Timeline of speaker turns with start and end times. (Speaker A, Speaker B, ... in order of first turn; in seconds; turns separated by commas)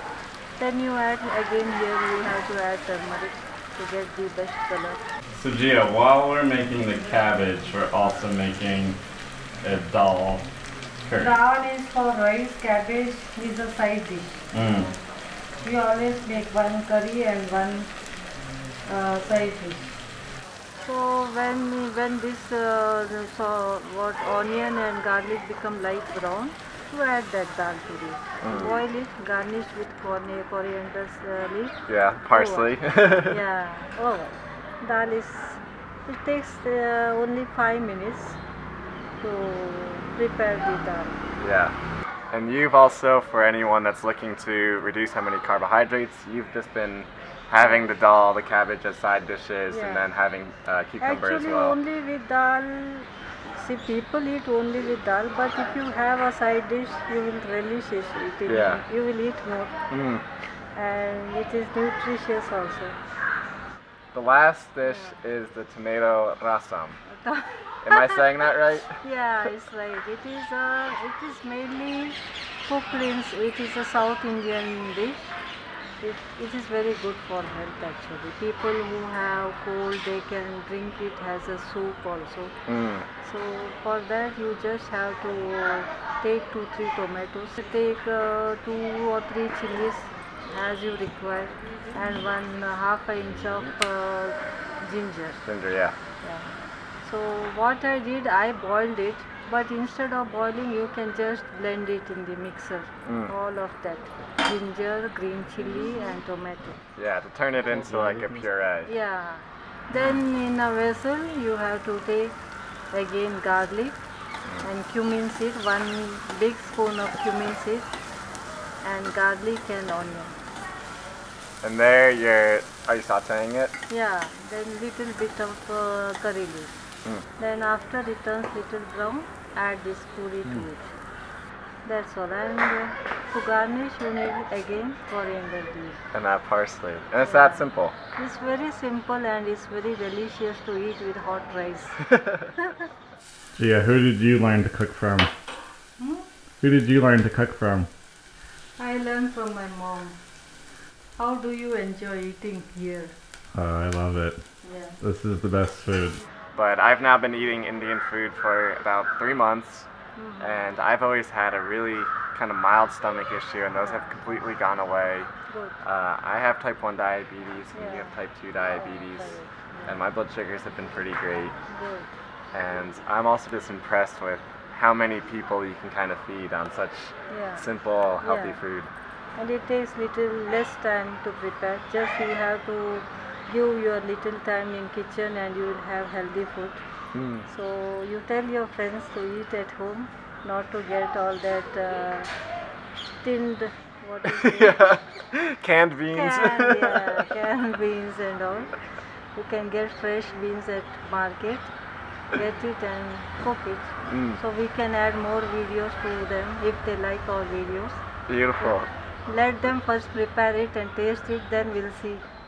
Speaker A: 0.6-5.0, Speaker B: 5.3-9.0, Speaker B: 9.6-10.4, Speaker B: 11.1-11.3, Speaker A: 11.2-14.5, Speaker B: 14.5-14.9, Speaker A: 15.6-17.9, Speaker A: 18.9-19.9, Speaker A: 20.8-38.4, Speaker B: 28.4-28.8, Speaker B: 31.9-33.4, Speaker A: 39.2-41.2, Speaker B: 41.4-41.7, Speaker B: 42.3-51.8, Speaker A: 49.7-50.0, Speaker A: 51.0-59.8, Speaker B: 58.5-58.8, Speaker B: 59.9-60.2, Speaker A: 60.8-63.0, Speaker B: 64.1-67.0, Speaker A: 64.8-65.2, Speaker A: 67.1-75.4, Speaker B: 67.8-69.0, Speaker A: 76.0-82.6, Speaker B: 82.7-83.1, Speaker A: 83.2-95.4, Speaker B: 95.5-96.0, Speaker A: 96.2-106.8, Speaker B: 103.0-103.3, Speaker B: 107.0-108.9, Speaker A: 108.9-112.4, Speaker A: 112.9-114.0, Speaker A: 114.6-117.9, Speaker A: 118.8-120.4, Speaker B: 121.6-123.7, Speaker A: 123.9-126.7, Speaker A: 127.4-130.9, Speaker A: 131.8-136.0, Speaker B: 136.1-138.0, Speaker A: 137.2-142.9, Speaker C: 143.6-145.3, Speaker A: 146.0-146.3, Speaker C: 146.6-147.9, Speaker A: 148.8-150.2, Speaker A: 151.2-153.2, Speaker C: 153.6-154.4, Speaker A: 154.6-155.0, Speaker C: 155.0-156.2, Speaker B: 156.6-159.9, Speaker A: 160.2-160.7, Speaker B: 160.4-165.3, Speaker A: 163.8-164.1, Speaker A: 165.5-165.8, Speaker B: 165.8-169.3, Speaker A: 167.7-170.0, Speaker B: 169.9-171.6, Speaker A: 171.7-172.1, Speaker B: 172.5-178.9, Speaker A: 177.3-177.7, Speaker A: 178.2-178.6, Speaker A: 179.4-186.8, Speaker B: 187.1-187.5, Speaker A: 187.5-192.3, Speaker A: 193.2-195.0, Speaker B: 194.3-197.3, Speaker A: 196.1-198.8, Speaker A: 199.3-201.7, Speaker A: 202.3-208.1, Speaker B: 204.1-204.4, Speaker B: 208.3-208.9, Speaker A: 208.6-212.3